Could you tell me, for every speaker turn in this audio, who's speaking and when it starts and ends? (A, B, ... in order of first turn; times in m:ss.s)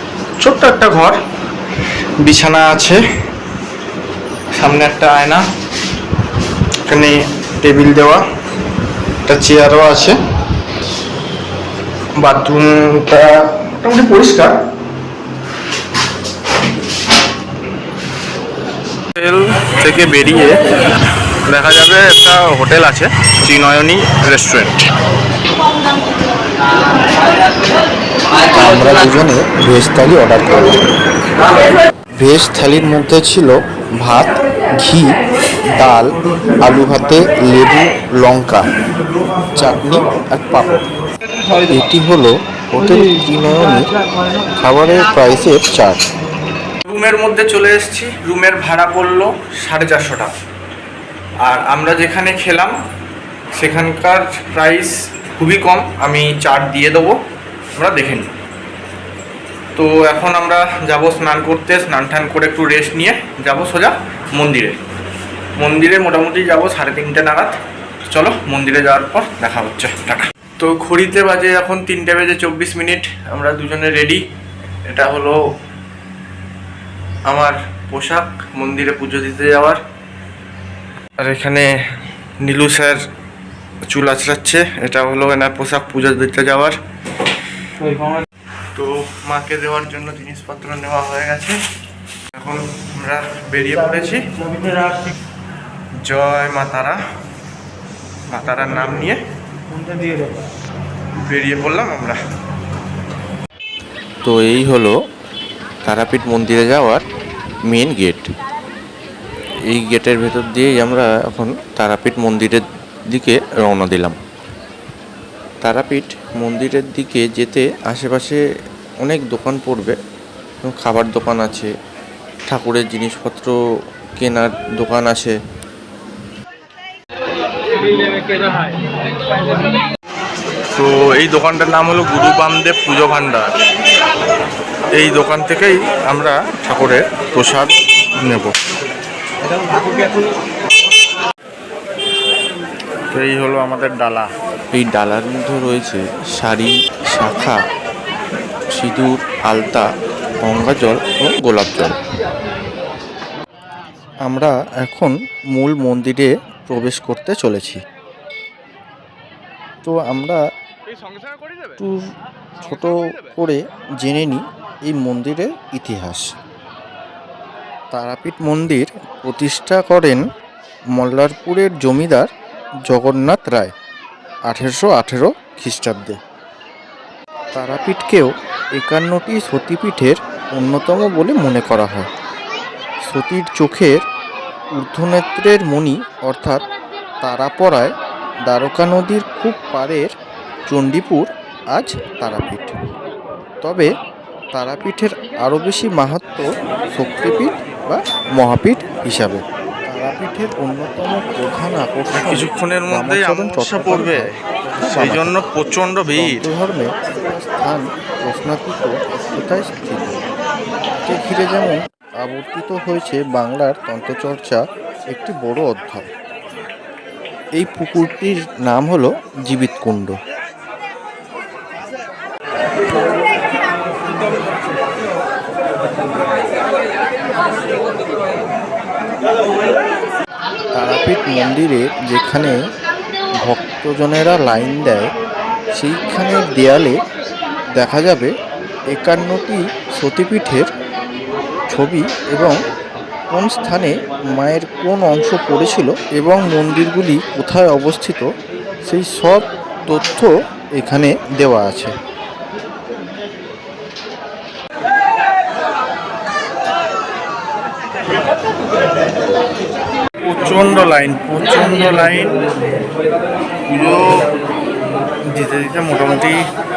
0:00.4-0:01.2 A
0:02.2-0:03.0 A
0:04.6-0:05.4 A
0:06.9-0:08.2 A
0:09.2-0:10.2 A
0:12.2-0:14.6 A
0:19.2-0:20.6 A
0:21.5-0:24.9 A
0:28.5-0:30.8 B
0:32.2-0:35.2 B
0:35.8-0:38.6 B
0:39.6-0:40.8 B
0:41.7-0:42.0 C
0:42.0-0:43.1 B
0:42.7-0:43.8 C
0:44.6-0:46.0 B
0:46.8-0:50.3 A
0:51.4-0:52.7 A
0:53.6-0:57.2 A
0:57.8-0:58.3 A
0:59.8-1:04.8 A
1:05.6-1:07.6 A
1:08.1-1:14.2 A
1:14.9-1:15.4 A
1:17.3-1:19.8 A
1:21.2-1:21.7 A
1:22.4-1:23.0 A
1:23.9-1:26.8 A
1:28.7-1:31.6 A
1:32.3-1:34.9 A
1:36.0-1:37.0 A
1:38.3-1:39.2 A
1:41.2-1:42.2 A
1:44.2-1:44.9 C
1:45.8-1:47.0 C
1:47.7-1:48.3 C
1:49.7-1:54.2 C
1:55.6-1:58.4 C
1:59.0-2:00.0 C
2:00.6-2:01.7 C
2:02.5-2:03.6 C
2:04.2-2:05.3 C
2:10.8-2:13.5 A
2:14.9-2:18.5 A
2:23.1-2:24.3 A
2:24.7-2:27.6 C
2:28.7-2:29.9 C
2:30.4-2:31.9 C
2:34.3-2:37.8 C
2:39.8-2:40.4 C
2:41.8-2:42.0 C
2:42.6-2:46.3 C
2:47.9-2:50.2 C
2:51.0-2:52.3 C
2:52.9-2:53.7 C
2:54.5-2:56.2 C
2:57.5-3:02.1 C
3:03.0-3:04.0 C
3:04.7-3:06.6 C
3:07.2-3:07.9 C
3:08.4-3:10.1 C
3:10.7-3:12.8 C
3:13.6-3:13.9 C
3:14.5-3:25.3 C
3:22.1-3:26.4 A
3:26.1-3:30.2 C
3:31.0-3:36.1 C
3:37.6-3:40.1 C
3:50.8-3:52.6 C
3:53.4-3:55.1 C
3:55.7-3:57.0 C
3:57.8-3:58.3 C
3:58.9-4:00.7 C
4:01.7-4:02.6 C
4:03.3-4:08.2 C
4:08.8-4:11.9 C
4:20.2-4:22.4 A
4:23.7-4:24.3 A
4:25.3-4:26.4 A